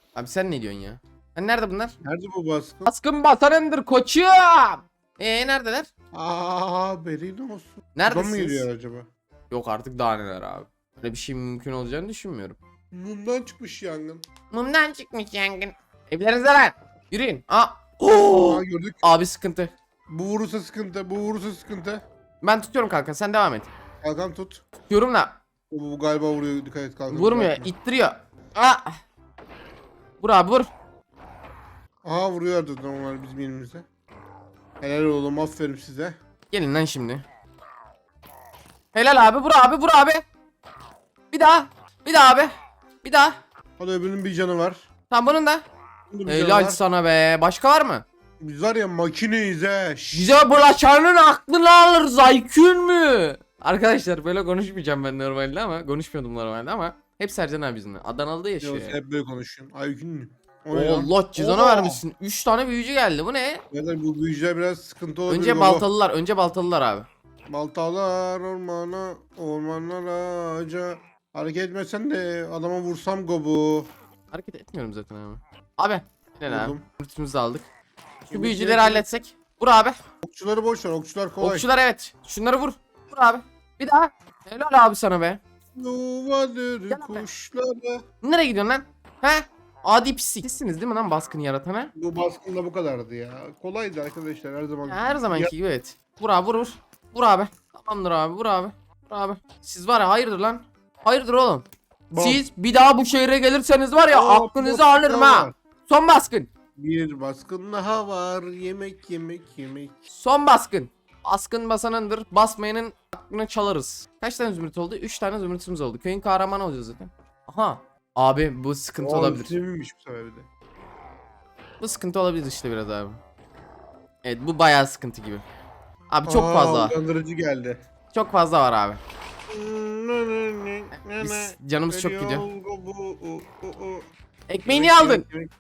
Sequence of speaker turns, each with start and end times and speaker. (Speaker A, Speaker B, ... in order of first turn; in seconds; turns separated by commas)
Speaker A: 0.1-2.0, Speaker B: 2.0-2.9, Speaker A: 2.9-5.9, Speaker B: 6.1-9.1, Speaker A: 8.0-8.7, Speaker A: 9.5-12.6, Speaker B: 12.9-14.2, Speaker A: 14.5-19.7, Speaker B: 18.4-19.2, Speaker B: 20.1-22.0, Speaker A: 22.4-23.7, Speaker B: 24.0-24.6, Speaker A: 24.9-25.4, Speaker B: 25.7-27.7, Speaker A: 27.1-29.0, Speaker A: 30.2-30.7, Speaker B: 32.0-33.9, Speaker B: 34.8-36.2, Speaker A: 36.5-37.2, Speaker A: 38.9-40.2, Speaker A: 41.3-42.5, Speaker A: 43.0-43.4, Speaker B: 43.8-44.9, Speaker A: 45.1-45.6, Speaker B: 46.1-46.8, Speaker A: 46.3-48.0, Speaker B: 48.4-50.4, Speaker A: 50.1-59.0, Speaker B: 58.6-62.0, Speaker A: 60.7-63.6, Speaker B: 63.7-65.9, Speaker A: 65.3-67.1, Speaker B: 67.5-73.9, Speaker A: 74.3-77.7, Speaker B: 76.5-76.8, Speaker A: 78.2-80.0, Speaker B: 78.3-79.1, Speaker B: 80.2-81.7, Speaker A: 81.4-85.4, Speaker B: 85.8-88.0, Speaker A: 86.9-87.3, Speaker A: 88.2-91.9, Speaker B: 92.0-95.5, Speaker A: 94.9-101.7, Speaker B: 102.1-102.4, Speaker A: 102.2-106.5, Speaker B: 104.1-105.5, Speaker B: 106.8-110.0, Speaker A: 110.1-119.5, Speaker B: 119.0-120.5, Speaker A: 121.8-123.2, Speaker A: 124.2-125.4, Speaker A: 126.1-127.0, Speaker B: 126.2-127.8, Speaker A: 128.1-129.0, Speaker B: 129.5-134.1, Speaker A: 131.0-132.4, Speaker A: 134.5-135.2, Speaker B: 134.7-135.5